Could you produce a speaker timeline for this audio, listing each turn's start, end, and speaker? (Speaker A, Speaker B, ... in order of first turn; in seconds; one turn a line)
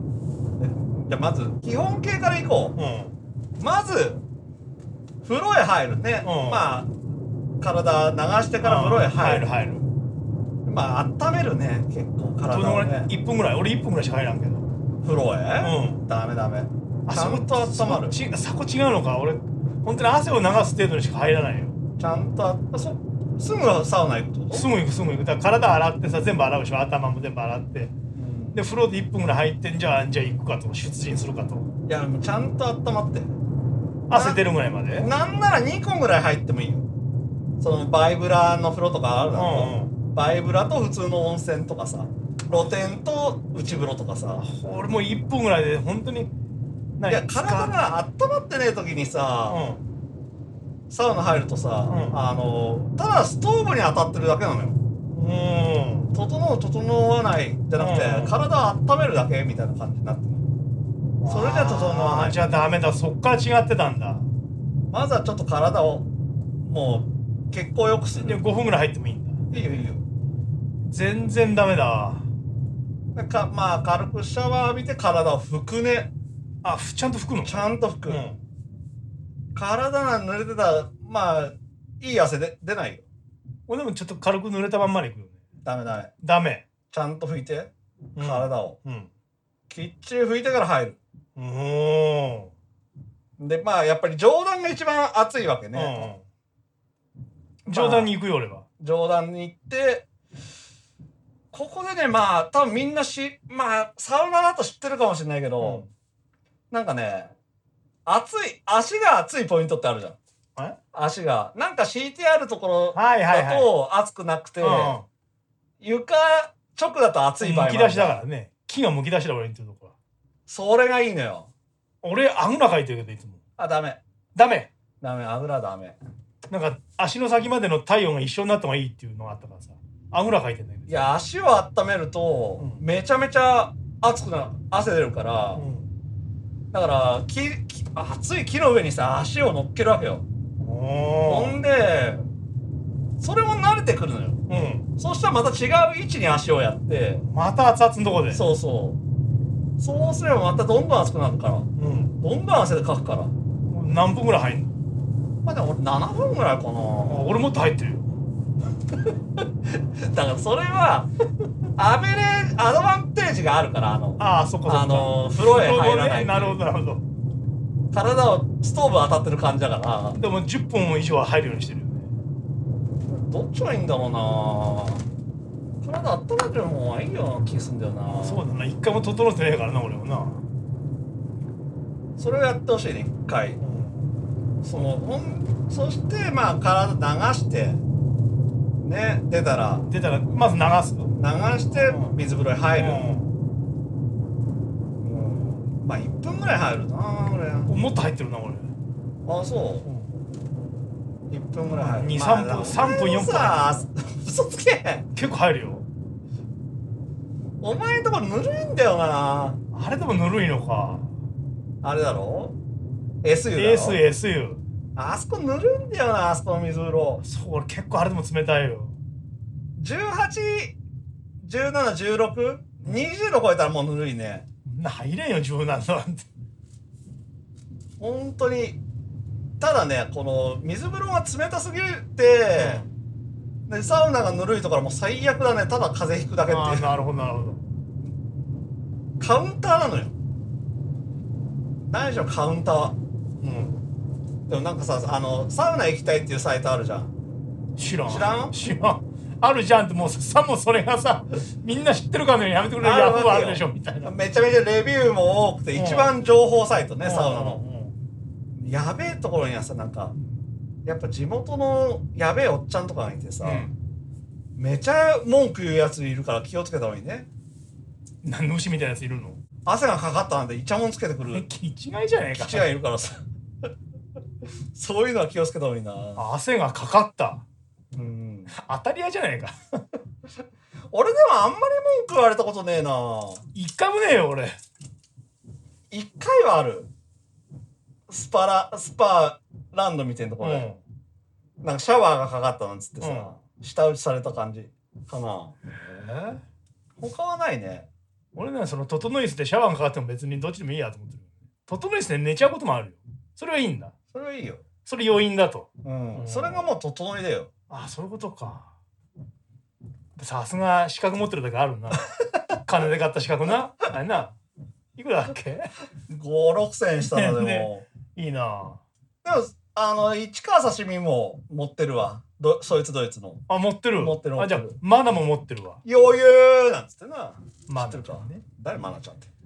Speaker A: 0.6-2.8
Speaker B: 2.8-3.1
Speaker A: 3.6-4.2
Speaker A: 5.2-6.9
Speaker B: 6.2-6.7
Speaker A: 7.6-9.5
Speaker B: 8.6-9.9
Speaker A: 10.7-13.1
Speaker B: 12.5-14.7
Speaker A: 15.0-18.2
Speaker B: 15.6-16.0
Speaker B: 17.1-21.8
Speaker A: 22.0-24.7
Speaker B: 24.5-27.9
Speaker A: 28.1-28.6
Speaker B: 28.5-31.7
Speaker A: 31.9-33.3
Speaker B: 34.1-35.1
Speaker A: 34.1-34.4
Speaker A: 35.0-36.9
Speaker A: 37.6-44.4
Speaker B: 39.3-39.9
Speaker B: 44.4-46.3
Speaker B: 47.0-47.7
Speaker A: 47.1-49.6
Speaker B: 49.5-49.8
Speaker A: 50.9-54.8
Speaker B: 51.9-52.2
Speaker B: 55.1-56.1
Speaker A: 56.1-60.5
Speaker B: 57.8-58.4
Speaker B: 61.2-64.3
Speaker A: 61.3-62.4
Speaker A: 64.9-66.1
Speaker A: 66.6-68.4
Speaker B: 68.2-69.8
Speaker A: 69.5-70.0
Speaker B: 70.9-72.3
Speaker A: 73.1-76.1
Speaker B: 76.6-78.4
Speaker A: 77.4-78.2
Speaker A: 79.5-83.0
Speaker B: 83.7-85.4
Speaker A: 85.6-86.1
Speaker B: 86.2-86.6
Speaker A: 86.9-88.8
Speaker B: 88.2-89.1
Speaker A: 89.7-91.0
Speaker B: 91.4-92.5
Speaker A: 93.4-96.1
Speaker B: 95.7-96.2
Speaker B: 97.7-98.6
Speaker A: 97.7-98.1
Speaker A: 98.8-100.1
Speaker A: 101.5-105.9
Speaker B: 105.6-105.9
Speaker A: 106.7-107.3
Speaker A: 108.1-110.2
Speaker A: 110.9-115.0
Speaker B: 113.0-113.7
Speaker B: 114.6-115.0
Speaker A: 115.8-118.2
Speaker B: 117.4-119.9
Speaker A: 120.5-121.5
Speaker B: 122.0-123.4
Speaker A: 123.6-124.0
Speaker B: 124.4-124.7
Speaker A: 125.0-126.0
Speaker B: 126.5-131.0
Speaker A: 130.9-135.7
Speaker B: 135.6-135.9
Speaker A: 136.7-140.2
Speaker B: 140.6-141.6
Speaker A: 141.2-142.2
Speaker A: 143.2-144.4
Speaker B: 144.5-144.8
Speaker A: 145.0-147.2
Speaker B: 147.3-148.4
Speaker A: 148.3-149.0
Speaker A: 149.8-153.3
Speaker B: 151.8-152.1
Speaker B: 153.7-154.8
Speaker A: 155.4-157.3
Speaker B: 157.1-158.1
Speaker A: 159.7-161.1
Speaker A: 161.8-166.6
Speaker B: 164.2-167.0
Speaker A: 167.9-170.2
Speaker B: 170.2-172.1
Speaker A: 173.1-175.0
Speaker A: 175.8-178.4
Speaker B: 178.1-180.4
Speaker A: 182.2-183.6
Speaker B: 183.6-184.1
Speaker B: 184.6-184.9
Speaker A: 184.7-187.8
Speaker A: 188.8-189.9
Speaker B: 189.9-191.1
Speaker A: 191.2-193.2
Speaker B: 191.7-192.2
Speaker B: 192.7-193.3
Speaker A: 195.0-197.7
Speaker B: 197.7-198.7
Speaker A: 199.3-199.9
Speaker B: 199.8-200.1
Speaker A: 201.3-205.1
Speaker B: 201.7-203.8
Speaker B: 205.2-205.9
Speaker A: 207.6-209.6
Speaker B: 209.7-211.1
Speaker A: 211.8-212.6
Speaker A: 213.2-214.0
Speaker B: 213.6-214.6
Speaker A: 215.0-217.2
Speaker B: 217.2-218.9
Speaker A: 219.8-220.7
Speaker A: 221.4-224.5
Speaker B: 224.7-226.3
Speaker A: 228.0-228.8
Speaker A: 229.6-232.8
Speaker B: 232.6-232.9
Speaker A: 233.7-236.9
Speaker B: 236.5-237.6
Speaker A: 239.2-240.1
Speaker A: 241.9-243.8
Speaker A: 244.5-247.1
Speaker B: 247.8-254.1
Speaker A: 248.1-248.6
Speaker A: 252.8-257.6
Speaker B: 255.7-256.1
Speaker B: 257.0-257.9
Speaker A: 258.6-260.2
Speaker A: 260.9-263.7
Speaker B: 263.4-263.7
Speaker A: 264.6-267.3
Speaker B: 268.2-269.4
Speaker A: 269.7-271.5
Speaker B: 271.3-272.7
Speaker A: 272.3-273.2
Speaker A: 274.7-276.3
Speaker B: 276.2-277.4
Speaker A: 277.9-278.6
Speaker B: 278.5-279.6
Speaker A: 280.9-283.5
Speaker B: 283.6-284.6
Speaker A: 285.9-286.9
Speaker A: 288.1-290.7
Speaker B: 290.4-290.8
Speaker A: 291.6-296.3
Speaker B: 293.0-293.4
Speaker A: 297.0-297.9
Speaker B: 298.4-303.9
Speaker A: 304.1-304.6
Speaker B: 304.9-306.7
Speaker A: 305.8-307.5
Speaker B: 307.7-308.7
Speaker B: 310.2-314.4
Speaker B: 315.0-315.7
Speaker A: 316.1-317.9
Speaker B: 317.0-318.8
Speaker A: 319.2-323.5
Speaker B: 323.5-325.8
Speaker A: 324.0-324.8
Speaker A: 325.9-329.3
Speaker B: 327.7-328.4